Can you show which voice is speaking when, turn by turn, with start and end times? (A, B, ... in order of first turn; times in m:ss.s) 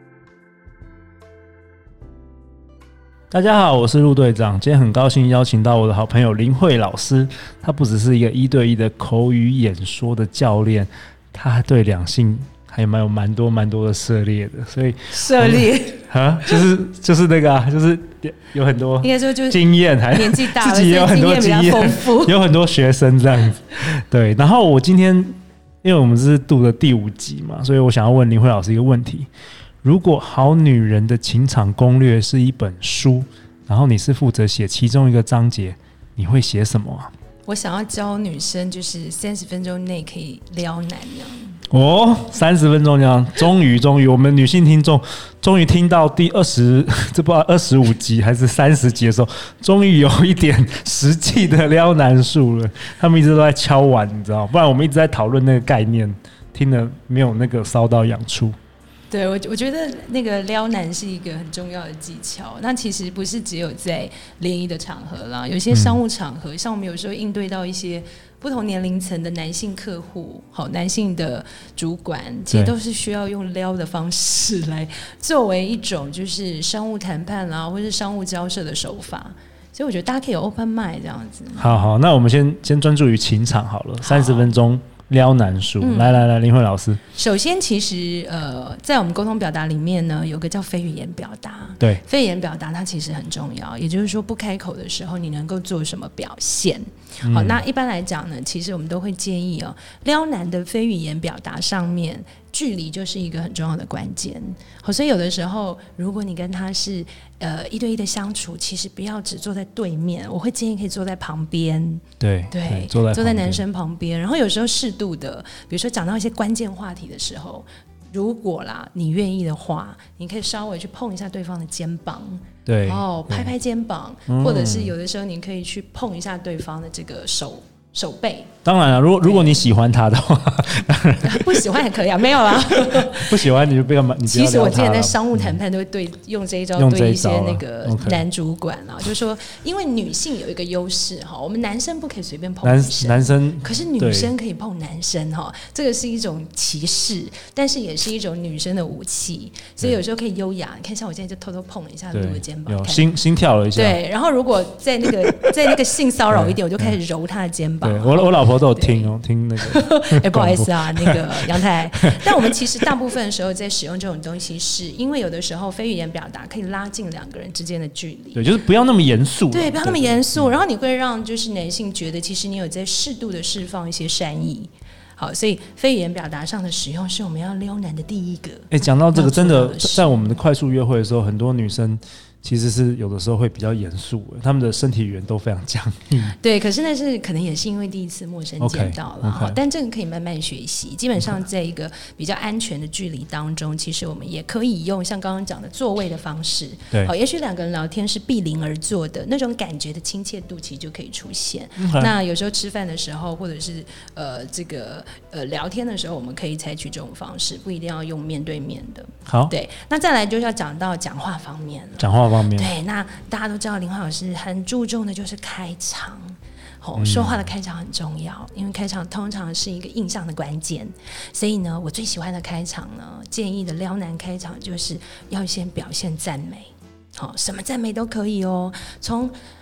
0:03.3-0:29.3 A
0:15.1-0:16.6 B
0:19.0-0:22.4 B
0:29.8-0:37.1 A
0:37.5-0:41.6 B
0:41.7-0:58.5 A
0:59.1-1:21.9 B
1:05.7-1:06.0 A
1:21.6-1:27.0 A
1:24.0-1:24.5 B
1:25.8-1:26.3 B
1:27.1-2:08.5 B
1:37.2-1:37.6 A
1:52.2-1:53.6 A
2:02.6-2:03.5 A
2:04.3-2:04.9 A
2:08.6-2:11.8 A
2:09.2-2:09.6 B
2:11.2-2:13.5 B
2:12.8-2:15.5 A
2:14.2-2:33.1 B
2:16.8-2:18.2 A
2:22.6-2:24.3 A
2:32.1-2:34.0 A
2:33.7-2:48.5 B
2:36.3-2:37.0 A
2:37.8-2:41.2 A
2:48.3-2:50.5 A
2:49.5-3:00.4 B
2:58.7-3:06.3 A
3:06.4-3:49.3 B
3:08.6-3:09.6 A
3:21.8-3:22.1 A
3:29.3-3:29.5 A
3:32.0-3:32.7 A
3:37.0-3:37.4 A